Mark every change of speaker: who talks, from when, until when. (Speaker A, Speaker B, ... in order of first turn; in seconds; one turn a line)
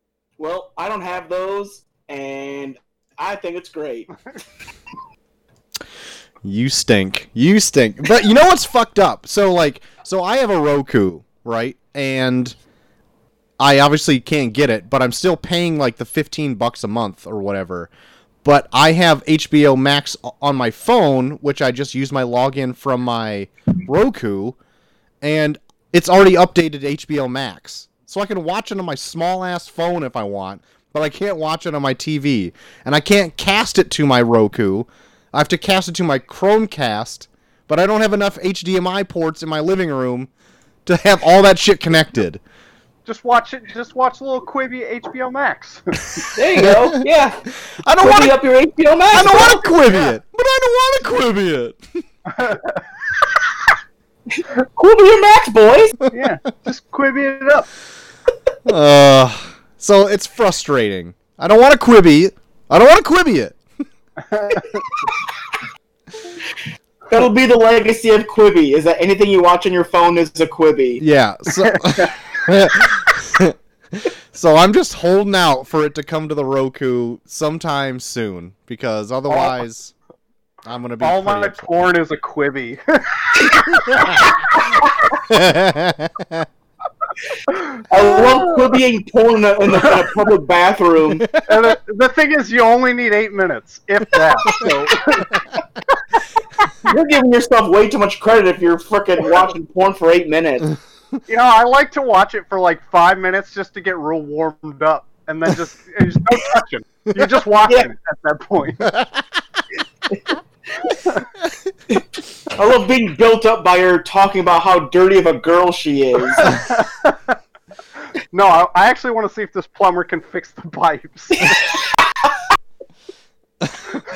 Speaker A: 0.4-4.1
Speaker B: 6.4-12.6
Speaker B: 13.6-17.9
Speaker B: 18.4-24.6
Speaker B: 25.2-40.3
Speaker B: 40.9-42.4
Speaker C: 43.0-46.2
Speaker A: 46.4-47.4
Speaker B: 46.6-47.0
Speaker B: 47.5-48.3
Speaker A: 48.0-49.6
Speaker B: 49.1-51.8
Speaker C: 52.3-52.8
Speaker A: 54.3-56.0
Speaker C: 56.1-57.7
Speaker B: 58.6-63.6
Speaker C: 64.3-64.8
Speaker A: 67.1-71.0
Speaker B: 71.0-79.9
Speaker C: 71.6-71.9
Speaker C: 79.3-79.6
Speaker B: 80.7-81.6
Speaker C: 81.0-84.2
Speaker B: 83.9-84.2
Speaker A: 84.5-85.1
Speaker B: 85.3-86.5
Speaker C: 87.6-88.7
Speaker A: 87.9-91.2
Speaker B: 91.2-91.5
Speaker C: 91.5-95.4
Speaker A: 96.8-100.7
Speaker C: 101.3-109.0
Speaker C: 110.9-111.2
Speaker A: 112.5-116.6
Speaker C: 116.4-117.2
Speaker C: 118.3-121.8
Speaker A: 121.5-122.4
Speaker B: 123.6-124.0